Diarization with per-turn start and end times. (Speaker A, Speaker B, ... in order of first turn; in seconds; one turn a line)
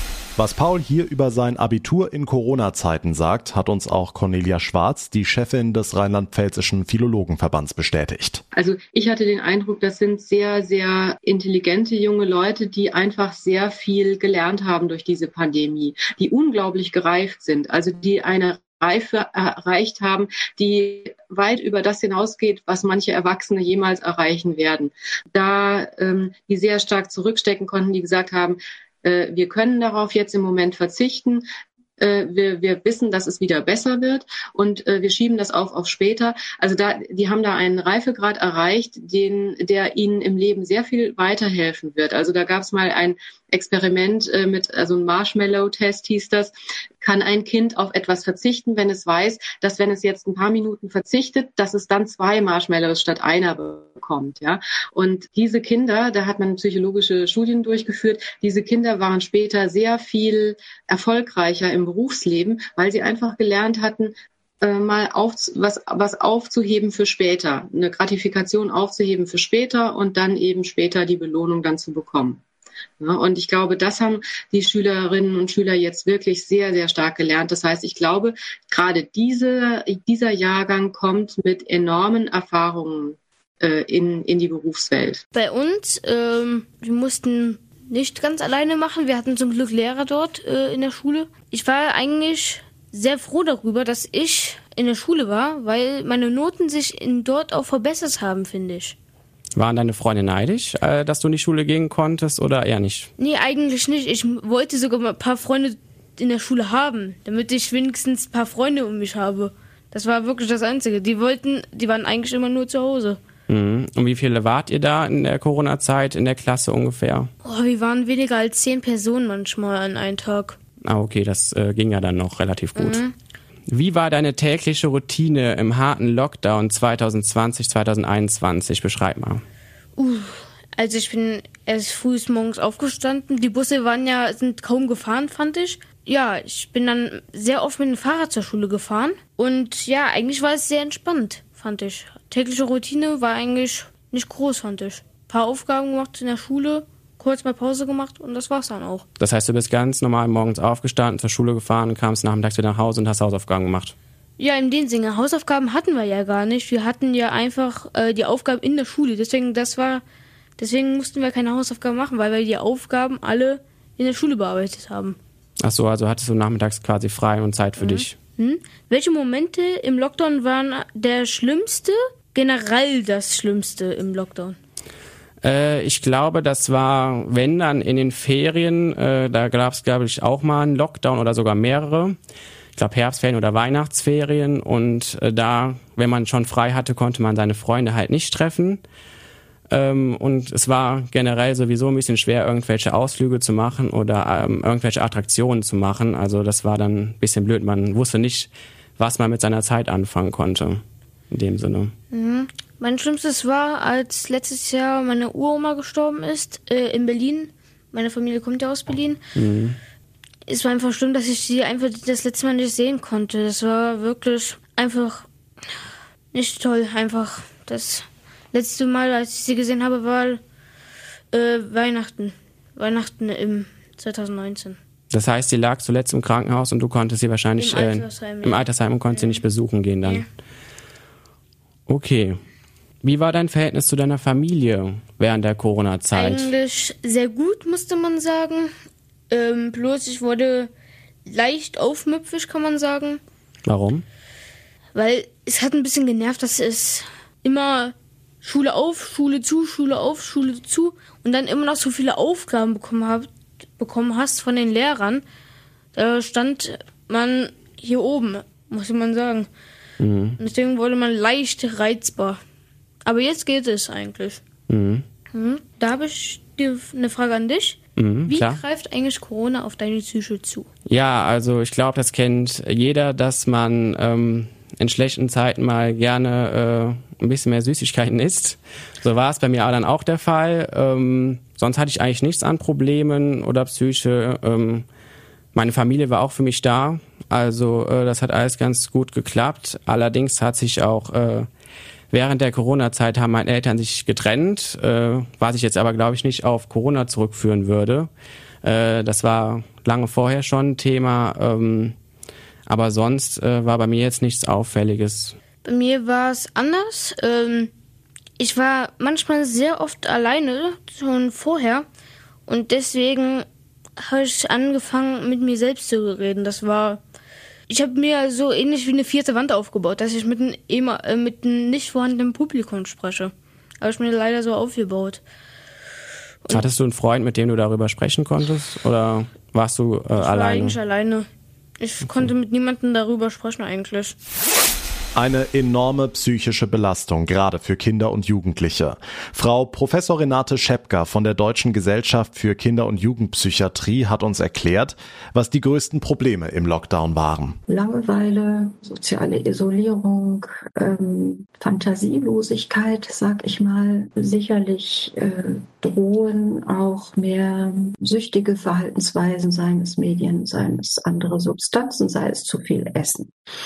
Speaker A: 0.4-8.4
Speaker B: 8.5-31.5
Speaker B: 32.0-72.4
Speaker B: 73.0-85.2
Speaker C: 85.3-99.0
Speaker D: 99.5-103.1
Speaker C: 103.2-113.2
Speaker D: 113.5-117.3
Speaker C: 117.4-120.6
Speaker D: 120.8-123.0
Speaker C: 122.8-123.1
Speaker D: 123.7-129.4
Speaker C: 129.9-149.1
Speaker D: 149.2-153.9
Speaker C: 154.4-160.0
Speaker C: 160.6-165.2
Speaker D: 165.6-168.2
Speaker C: 167.8-174.6
Speaker D: 175.4-182.2
Speaker D: 182.7-188.8
Speaker D: 189.7-201.9
Speaker C: 202.1-209.2
Speaker D: 209.3-209.8
Speaker C: 210.5-215.3
Speaker C: 216.3-220.4
Speaker C: 221.3-224.8
Speaker D: 225.1-230.2
Speaker C: 227.6-229.4
Speaker D: 231.9-232.4
Speaker D: 233.0-236.5
Speaker C: 236.1-238.7
Speaker C: 239.3-240.7
Speaker C: 241.2-243.2
Speaker D: 243.7-244.0
Speaker C: 244.9-255.2
Speaker C: 255.9-259.5
Speaker D: 260.0-260.4
Speaker C: 260.4-262.4
Speaker C: 263.0-264.4
Speaker D: 264.7-265.0
Speaker C: 265.3-270.7
Speaker D: 268.0-268.6
Speaker D: 270.9-284.9
Speaker D: 285.5-291.5
Speaker D: 292.1-298.1
Speaker D: 298.6-301.9
Speaker D: 302.7-305.4
Speaker C: 305.6-307.7
Speaker C: 308.4-311.9
Speaker C: 312.5-313.4
Speaker C: 314.0-317.0
Speaker C: 317.7-325.2
Speaker C: 326.4-326.7
Speaker D: 326.5-330.8
Speaker C: 330.1-331.3
Speaker C: 331.8-334.1
Speaker A: 335.1-347.6
Speaker E: 347.7-363.3